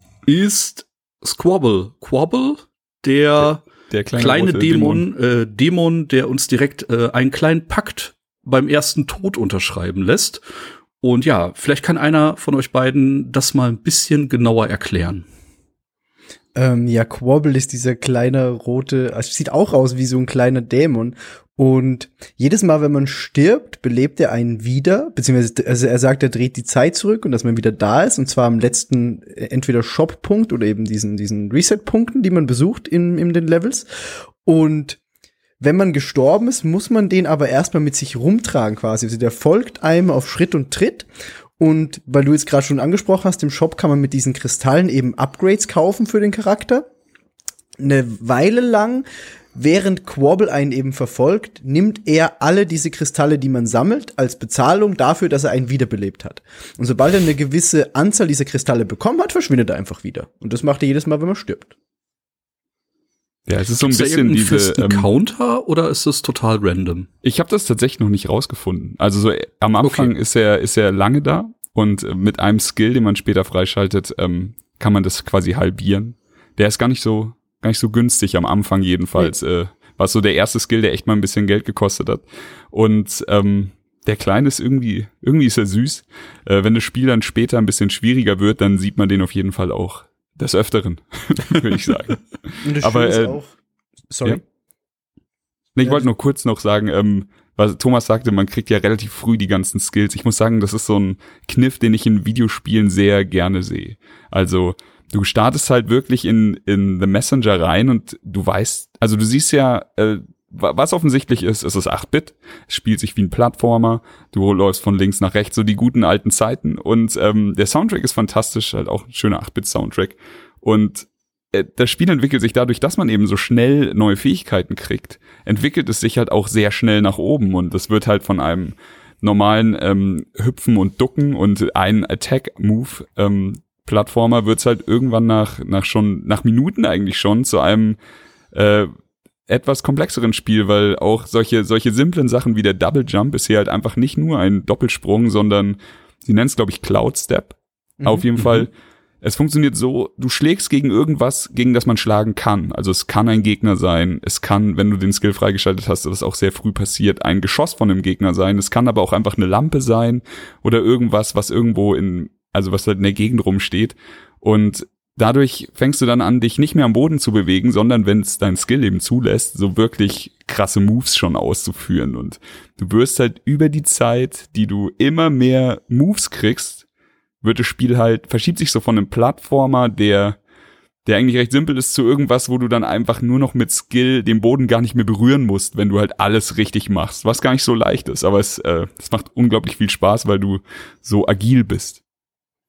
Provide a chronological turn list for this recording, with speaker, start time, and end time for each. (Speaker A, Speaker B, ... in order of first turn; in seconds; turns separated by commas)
Speaker A: 0.2-3.6, Speaker B: 3.4-5.0, Speaker A: 4.2-10.4, Speaker A: 11.0-15.2, Speaker C: 16.6-33.9, Speaker C: 34.4-35.0, Speaker C: 35.6-41.1, Speaker C: 41.6-46.9, Speaker C: 47.8-61.7, Speaker B: 63.5-65.1, Speaker A: 63.7-67.1, Speaker B: 67.2-93.4, Speaker A: 69.8-70.1, Speaker C: 92.6-93.5, Speaker C: 94.1-94.4, Speaker B: 95.7-138.0, Speaker C: 95.8-96.1, Speaker B: 138.5-138.9, Speaker B: 139.5-176.8, Speaker C: 148.0-148.3, Speaker B: 177.4-180.4, Speaker B: 181.0-192.0